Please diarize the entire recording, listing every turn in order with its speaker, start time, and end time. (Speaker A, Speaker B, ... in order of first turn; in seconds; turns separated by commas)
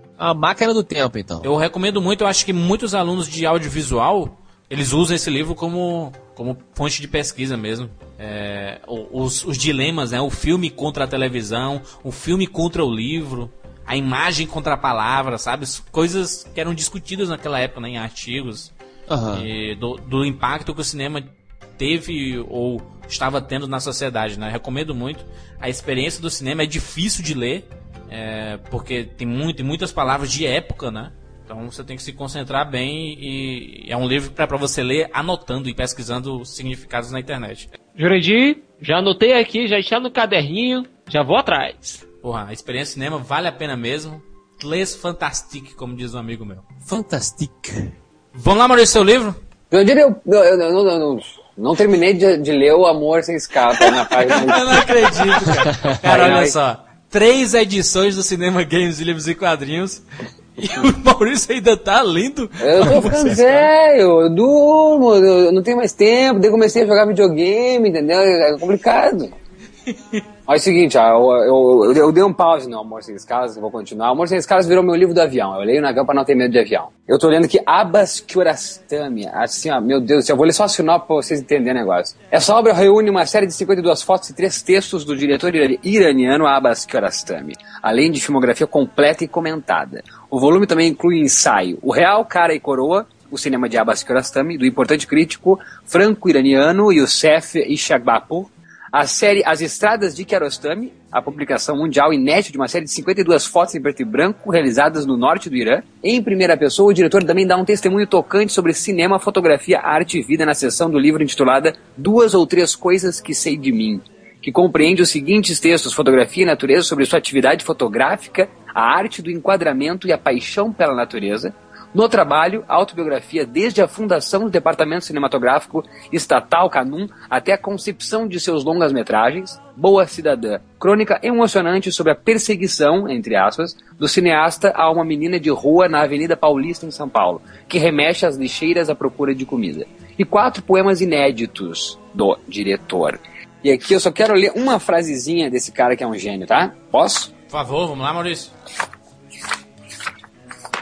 Speaker A: 0.2-1.5, Speaker B: 1.4-18.7, Speaker A: 19.1-19.5, Speaker B: 19.3-21.2, Speaker B: 21.8-37.7, Speaker C: 38.0-42.0, Speaker B: 42.2-46.6, Speaker A: 46.9-47.9, Speaker B: 48.3-49.4, Speaker D: 49.7-54.9, Speaker B: 54.2-60.0, Speaker D: 56.0-56.5, Speaker B: 60.6-63.6, Speaker D: 62.6-69.3, Speaker B: 69.9-70.2, Speaker D: 70.5-147.3, Speaker B: 147.5-148.5